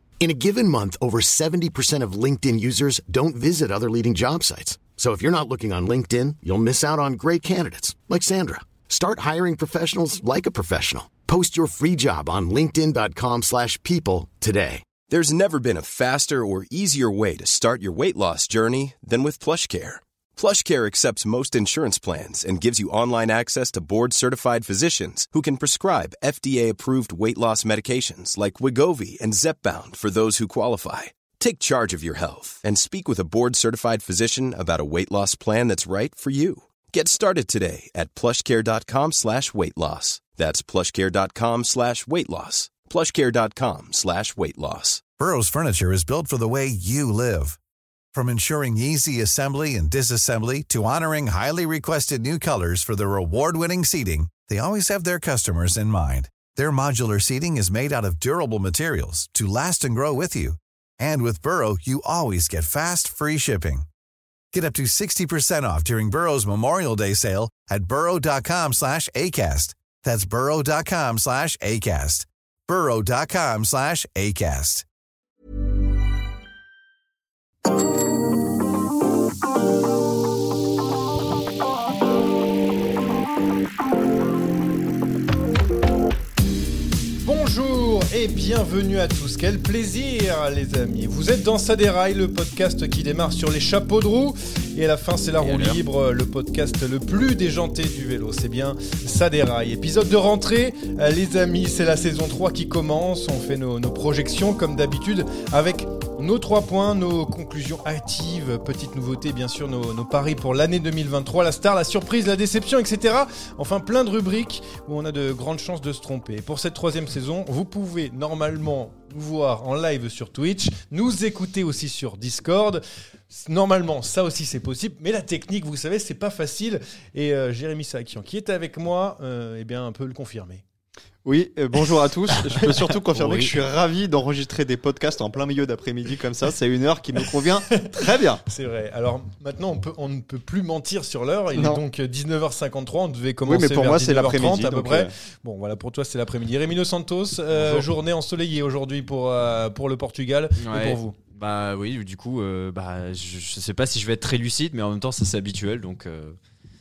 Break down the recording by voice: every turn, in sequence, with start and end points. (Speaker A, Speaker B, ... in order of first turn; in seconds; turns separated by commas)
Speaker A: 0.2-14.9, Speaker B: 15.1-45.0, Speaker C: 45.2-47.6, Speaker C: 48.1-63.9, Speaker C: 64.5-74.8, Speaker D: 87.2-130.6, Speaker E: 95.4-95.8, Speaker F: 131.2-138.4, Speaker E: 133.1-133.5, Speaker D: 137.7-151.2, Speaker F: 141.5-141.8, Speaker F: 143.4-145.1, Speaker E: 147.6-147.8, Speaker E: 150.6-156.4